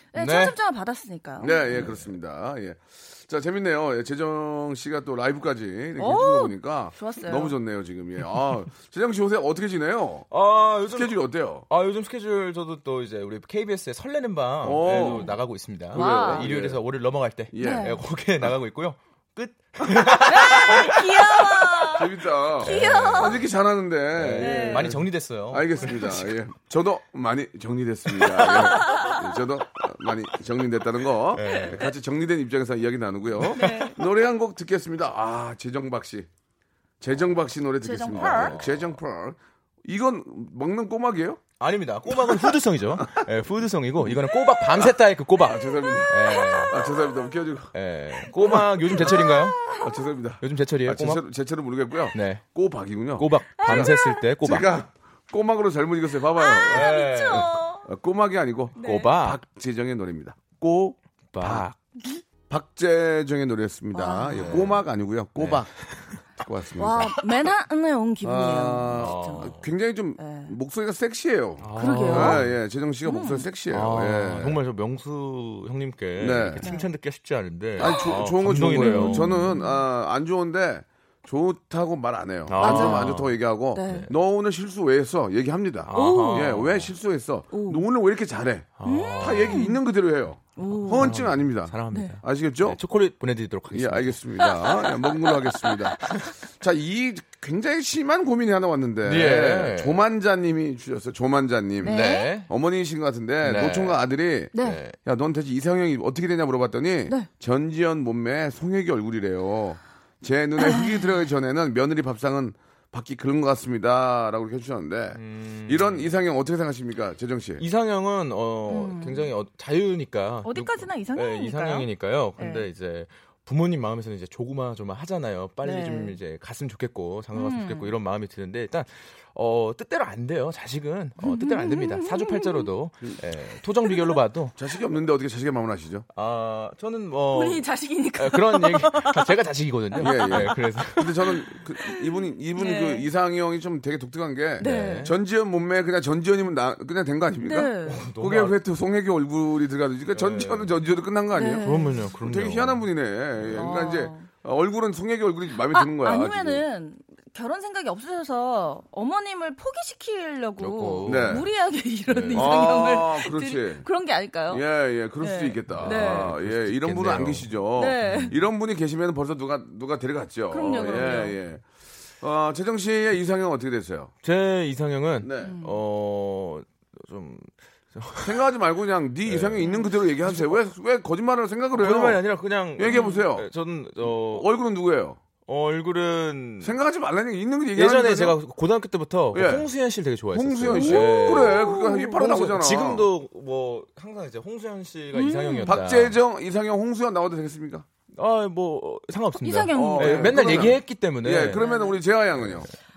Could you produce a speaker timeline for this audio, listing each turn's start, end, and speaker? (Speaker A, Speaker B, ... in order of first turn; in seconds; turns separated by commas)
Speaker A: 0.1-1.8, Speaker B: 0.2-0.6, Speaker C: 1.4-10.3, Speaker B: 1.6-2.1, Speaker A: 6.0-7.5, Speaker B: 10.3-21.8, Speaker C: 10.9-11.7, Speaker C: 14.6-15.3, Speaker A: 14.8-15.4, Speaker A: 15.9-16.5, Speaker C: 15.9-16.8, Speaker C: 17.5-17.9, Speaker A: 17.6-18.0, Speaker A: 20.2-23.4, Speaker C: 21.9-36.3, Speaker B: 22.6-23.5, Speaker B: 24.1-26.4, Speaker A: 24.4-25.0, Speaker A: 28.3-29.2, Speaker B: 28.4-28.8, Speaker B: 31.3-31.9, Speaker A: 31.4-31.8, Speaker B: 33.4-33.9, Speaker A: 33.5-34.0, Speaker C: 37.0-41.4, Speaker A: 37.8-38.6, Speaker B: 38.1-39.0, Speaker B: 41.6-46.9, Speaker C: 44.7-47.7, Speaker A: 46.4-46.7, Speaker B: 47.7-49.7, Speaker C: 48.4-57.0, Speaker A: 49.0-49.9, Speaker B: 50.4-51.2, Speaker B: 52.1-52.4, Speaker B: 53.2-54.7, Speaker A: 53.6-54.2, Speaker A: 56.4-57.9, Speaker B: 56.7-57.5, Speaker C: 57.8-61.7, Speaker A: 58.8-59.1, Speaker B: 58.8-59.4, Speaker B: 61.3-61.7, Speaker C: 62.5-65.7, Speaker A: 63.9-64.6, Speaker B: 64.3-64.8, Speaker B: 65.4-66.2, Speaker C: 66.4-67.2, Speaker A: 66.8-69.5, Speaker C: 68.2-74.6, Speaker B: 68.9-69.6, Speaker A: 70.2-70.5, Speaker B: 71.6-72.6, Speaker A: 71.8-72.4, Speaker A: 73.0-73.5, Speaker B: 73.7-79.5, Speaker C: 76.2-76.7, Speaker A: 76.6-76.9, Speaker C: 77.8-88.7, Speaker A: 77.8-79.8, Speaker B: 82.5-84.1, Speaker A: 82.6-83.2, Speaker A: 83.7-84.1, Speaker B: 85.8-86.9, Speaker A: 85.9-86.6, Speaker A: 87.5-87.8, Speaker B: 88.8-89.7, Speaker A: 88.8-89.8, Speaker C: 89.2-92.8, Speaker A: 90.5-91.2, Speaker B: 90.9-94.5, Speaker A: 91.9-92.2, Speaker C: 93.7-117.6, Speaker A: 94.4-95.7, Speaker B: 96.0-96.3, Speaker B: 99.0-100.0, Speaker A: 101.8-102.3, Speaker B: 101.8-102.5, Speaker B: 103.4-105.0, Speaker A: 104.5-104.8, Speaker A: 110.6-111.0, Speaker B: 115.1-116.1, Speaker B: 117.6-134.5, Speaker A: 118.7-119.3, Speaker A: 120.4-122.7, Speaker A: 125.6-126.2, Speaker A: 127.3-127.9, Speaker A: 131.2-132.7, Speaker A: 133.9-134.2, Speaker C: 134.6-136.0, Speaker B: 136.1-141.4, Speaker A: 137.3-139.3, Speaker A: 139.9-140.6, Speaker C: 140.0-151.6, Speaker A: 141.8-143.1, Speaker A: 144.6-145.1, Speaker B: 144.6-145.2, Speaker A: 147.4-148.1, Speaker B: 147.8-148.6, Speaker B: 150.1-150.7, Speaker A: 151.3-152.0, Speaker B: 151.6-152.8, Speaker C: 152.2-156.6, Speaker B: 153.4-153.7, Speaker A: 153.5-154.3, Speaker A: 155.6-164.6, Speaker B: 160.6-161.4, Speaker C: 161.0-161.4, Speaker B: 162.1-162.6, Speaker C: 162.3-163.8, Speaker C: 164.5-171.6, Speaker A: 165.2-166.3, Speaker B: 165.7-168.3, Speaker A: 167.8-168.3, Speaker A: 170.5-171.3, Speaker B: 170.6-171.3, Speaker C: 172.2-174.1, Speaker B: 174.2-178.4, Speaker C: 175.2-175.6, Speaker A: 175.4-175.8, Speaker C: 178.2-182.2, Speaker B: 179.2-180.6, Speaker B: 181.8-184.5, Speaker C: 182.8-183.5, Speaker A: 182.8-183.2, Speaker C: 184.1-185.2, Speaker B: 185.4-186.7, Speaker C: 186.6-188.4, Speaker B: 187.8-196.2, Speaker C: 189.3-189.7, Speaker C: 190.3-193.1, Speaker A: 190.7-192.2, Speaker A: 195.1-195.8, Speaker C: 195.7-197.8, Speaker B: 198.1-201.6, Speaker A: 199.3-200.8, Speaker C: 199.7-202.7, Speaker A: 201.5-202.0